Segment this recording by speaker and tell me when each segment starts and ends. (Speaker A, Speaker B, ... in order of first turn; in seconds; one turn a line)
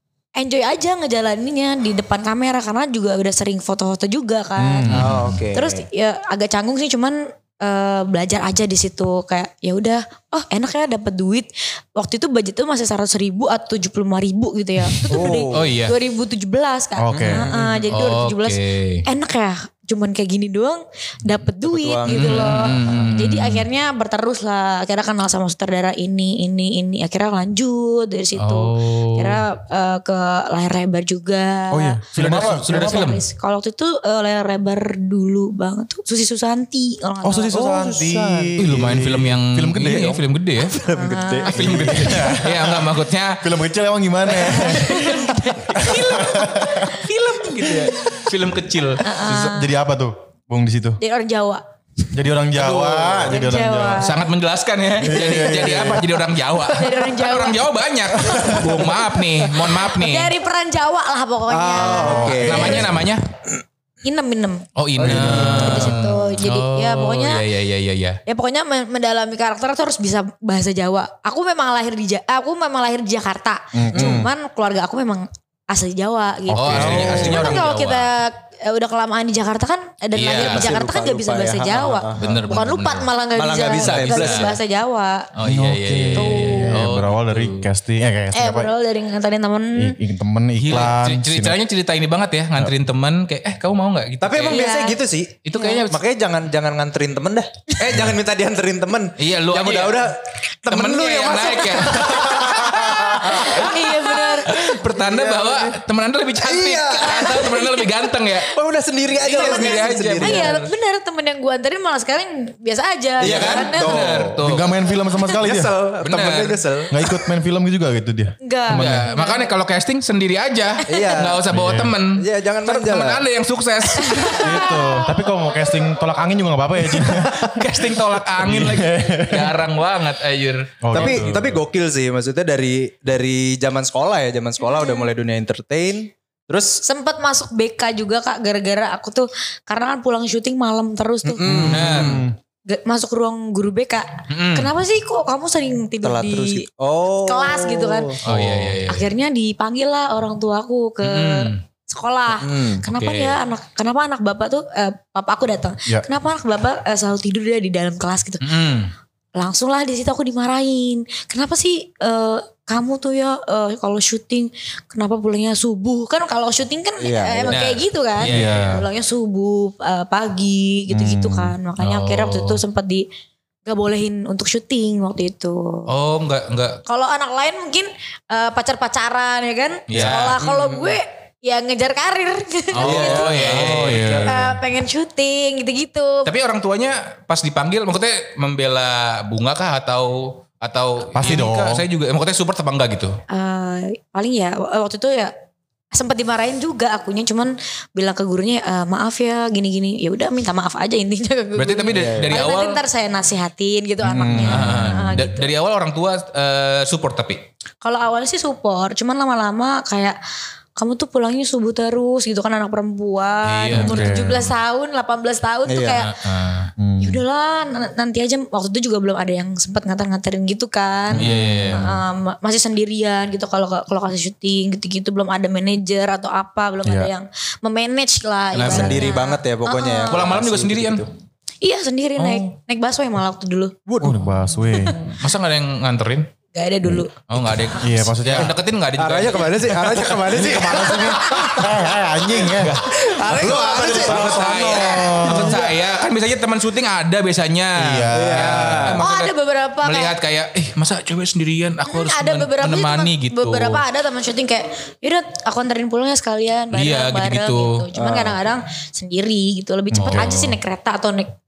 Speaker A: 0.3-4.9
Speaker B: 4.6-5.3
Speaker C: 4.9-5.4
Speaker D: 4.9-5.8
Speaker A: 5.5-37.6
Speaker D: 15.1-15.7
Speaker C: 15.2-15.9
Speaker B: 17.0-17.5
Speaker D: 17.1-17.9
Speaker C: 17.9-19.0
Speaker D: 21.6-23.1
Speaker C: 22.1-23.6
Speaker C: 28.4-29.4
Speaker B: 31.7-33.1
Speaker C: 32.1-33.2
Speaker B: 37.2-40.2
Speaker D: 37.5-38.6
Speaker C: 38.6-40.7
Speaker D: 40.7-42.4
Speaker A: 40.9-41.6
Speaker C: 41.5-43.4
Speaker B: 41.5-47.0
Speaker A: 44.3-46.0
Speaker C: 45.7-49.0
Speaker A: 49.0-49.7
Speaker B: 49.2-51.0
Speaker A: 51.0-51.6
Speaker B: 52.1-54.0
Speaker C: 52.5-53.3
Speaker A: 53.3-54.2
Speaker C: 54.0-60.3
Speaker B: 55.0-56.2
Speaker A: 56.7-57.6
Speaker A: 58.2-58.8
Speaker B: 58.2-58.7
Speaker A: 59.8-63.0
Speaker D: 61.5-63.1
Speaker B: 61.8-63.0
Speaker C: 62.2-63.2
Speaker A: 64.0-67.4
Speaker C: 64.8-68.2
Speaker D: 65.0-66.0
Speaker B: 65.0-65.9
Speaker A: 68.2-85.3
Speaker B: 73.7-74.3
Speaker D: 73.9-74.2
Speaker B: 76.5-77.5
Speaker C: 76.5-78.1
Speaker D: 76.8-77.6
Speaker C: 80.2-80.7
Speaker D: 80.3-82.6
Speaker C: 82.2-83.1
Speaker D: 83.3-84.6
Speaker C: 83.6-84.5
Speaker C: 85.3-87.7
Speaker B: 85.4-88.7
Speaker A: 86.1-86.8
Speaker A: 88.3-90.0
Speaker B: 89.8-91.6
Speaker C: 90.6-94.6
Speaker D: 94.2-103.8
Speaker A: 94.4-95.0
Speaker C: 95.4-96.0
Speaker A: 95.5-95.8
Speaker C: 99.2-100.1
Speaker C: 100.7-108.5
Speaker B: 102.4-103.3
Speaker A: 102.7-104.6
Speaker D: 104.5-105.8
Speaker D: 106.4-107.7
Speaker A: 107.1-107.9
Speaker D: 108.4-110.6
Speaker A: 109.2-114.0
Speaker C: 109.2-110.7
Speaker D: 113.2-114.4
Speaker C: 113.2-114.7
Speaker B: 114.4-115.7
Speaker D: 115.3-117.1
Speaker C: 116.0-116.7
Speaker B: 116.9-119.1
Speaker A: 118.4-119.5
Speaker C: 118.7-124.7
Speaker D: 120.9-121.5
Speaker B: 121.5-122.0
Speaker D: 122.1-123.2
Speaker A: 124.0-125.1
Speaker B: 124.4-127.7
Speaker C: 127.0-131.4
Speaker B: 128.4-129.6
Speaker B: 130.8-131.6
Speaker D: 130.9-136.8
Speaker A: 134.6-135.1
Speaker A: 136.8-141.7
Speaker D: 141.2-142.3
Speaker B: 141.4-142.3
Speaker C: 141.6-142.2
Speaker A: 142.7-146.6
Speaker C: 144.3-144.7
Speaker D: 146.0-148.2
Speaker A: 147.2-148.2
Speaker C: 148.2-149.1
Speaker B: 148.3-148.7
Speaker A: 148.9-158.4
Speaker C: 151.0-151.6
Speaker D: 152.4-152.8
Speaker C: 152.9-153.4
Speaker C: 158.4-158.9
Speaker A: 159.4-173.1
Speaker D: 167.0-167.6
Speaker C: 167.5-168.8
Speaker B: 168.2-168.8
Speaker B: 170.9-171.5
Speaker C: 171.8-172.6
Speaker A: 173.7-175.9
Speaker C: 175.9-176.8
Speaker A: 176.8-183.5
Speaker C: 179.9-180.4
Speaker D: 179.9-181.0
Speaker C: 182.7-184.3
Speaker D: 182.8-184.3
Speaker B: 183.5-184.5
Speaker A: 184.2-186.3
Speaker C: 186.2-193.2
Speaker B: 191.1-191.8
Speaker A: 193.3-195.3
Speaker A: 195.9-205.5
Speaker C: 201.6-202.8
Speaker D: 201.9-202.3
Speaker B: 204.0-205.2
Speaker C: 204.3-207.4
Speaker A: 207.8-210.2
Speaker A: 210.8-216.1
Speaker C: 213.4-214.5
Speaker B: 213.7-214.5
Speaker D: 215.7-216.1
Speaker C: 216.1-216.7
Speaker B: 216.8-217.2
Speaker A: 217.0-230.4
Speaker B: 221.1-222.0
Speaker C: 221.2-221.9
Speaker B: 226.8-227.1
Speaker C: 228.5-229.1
Speaker D: 228.5-231.1
Speaker C: 230.1-231.0
Speaker A: 231.6-233.7
Speaker C: 232.2-232.5
Speaker D: 233.9-234.2
Speaker B: 234.0-235.0
Speaker C: 235.2-236.3
Speaker A: 236.5-237.9
Speaker C: 237.3-240.0
Speaker B: 237.8-238.5
Speaker D: 238.4-241.9
Speaker B: 239.9-245.7
Speaker D: 242.4-245.7
Speaker C: 242.4-253.8
Speaker B: 247.8-248.9
Speaker D: 248.1-249.0
Speaker A: 249.0-250.1
Speaker A: 251.8-261.3
Speaker C: 256.7-257.9
Speaker D: 257.9-258.4
Speaker B: 259.9-260.4
Speaker C: 260.0-260.6